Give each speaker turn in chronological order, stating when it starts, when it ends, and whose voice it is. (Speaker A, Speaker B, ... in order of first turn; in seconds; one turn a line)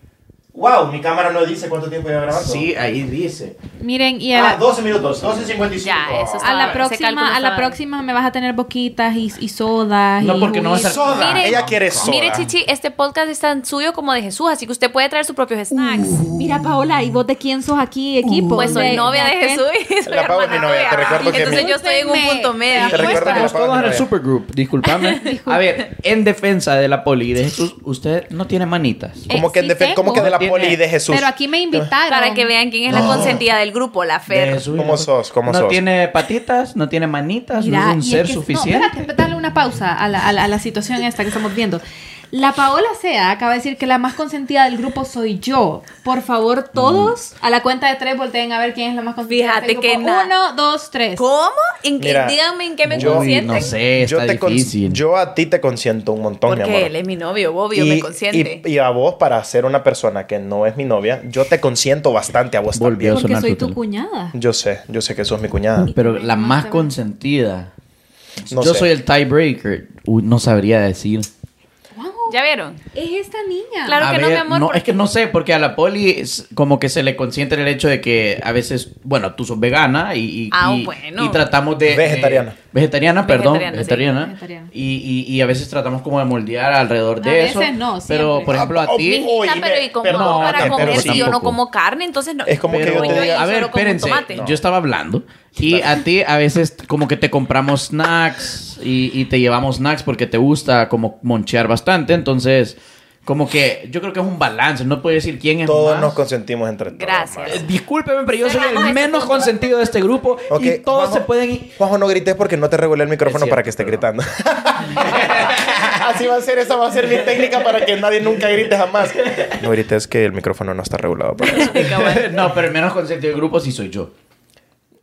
Speaker A: 0.5-2.7
Speaker B: 2.3-3.6
Speaker C: 3.8-4.6
Speaker A: 4.3-6.8
Speaker D: 5.8-7.8
Speaker C: 6.4-11.1
Speaker B: 10.2-12.4
Speaker A: 10.8-12.5
Speaker D: 10.8-16.2
Speaker B: 15.7-16.7
Speaker C: 16.3-19.6
Speaker B: 18.2-19.0
Speaker D: 18.5-23.5
Speaker A: 20.1-21.7
Speaker C: 21.1-23.5
Speaker A: 22.8-24.1
Speaker B: 23.0-29.3
Speaker C: 25.2-25.6
Speaker C: 29.3-30.3
Speaker A: 29.3-31.9
Speaker B: 30.1-30.8
Speaker C: 31.1-32.5
Speaker D: 32.1-34.6
Speaker A: 32.9-33.4
Speaker B: 32.9-33.4
Speaker B: 34.3-39.1
Speaker A: 34.7-35.8
Speaker C: 37.5-51.2
Speaker B: 46.7-47.1
Speaker D: 49.3-50.3
Speaker D: 51.1-53.8
Speaker A: 52.0-52.4
Speaker B: 52.9-55.0
Speaker A: 52.9-56.9
Speaker D: 56.5-58.6
Speaker A: 57.7-63.2
Speaker B: 62.7-63.8
Speaker C: 63.1-64.3
Speaker A: 64.3-65.9
Speaker C: 65.9-66.9
Speaker B: 65.9-67.7
Speaker B: 68.4-71.3
Speaker A: 68.5-68.9
Speaker C: 71.9-72.3
Speaker D: 72.3-72.8
Speaker C: 72.9-74.0
Speaker D: 73.8-75.0
Speaker B: 74.0-89.3
Speaker D: 80.5-81.4
Speaker A: 81.8-82.5
Speaker D: 83.2-84.1
Speaker C: 84.1-84.7
Speaker C: 87.2-88.5
Speaker A: 88.5-91.3
Speaker D: 89.0-94.4
Speaker B: 90.0-91.6
Speaker A: 92.5-93.4
Speaker B: 92.7-106.2
Speaker A: 94.3-94.6
Speaker A: 95.6-96.0
Speaker A: 105.6-107.6
Speaker D: 107.0-107.7
Speaker B: 107.4-111.7
Speaker D: 108.4-109.8
Speaker A: 110.5-122.1
Speaker B: 113.2-114.1
Speaker B: 114.8-116.2
Speaker B: 116.9-119.6
Speaker D: 121.4-122.5
Speaker B: 121.5-124.1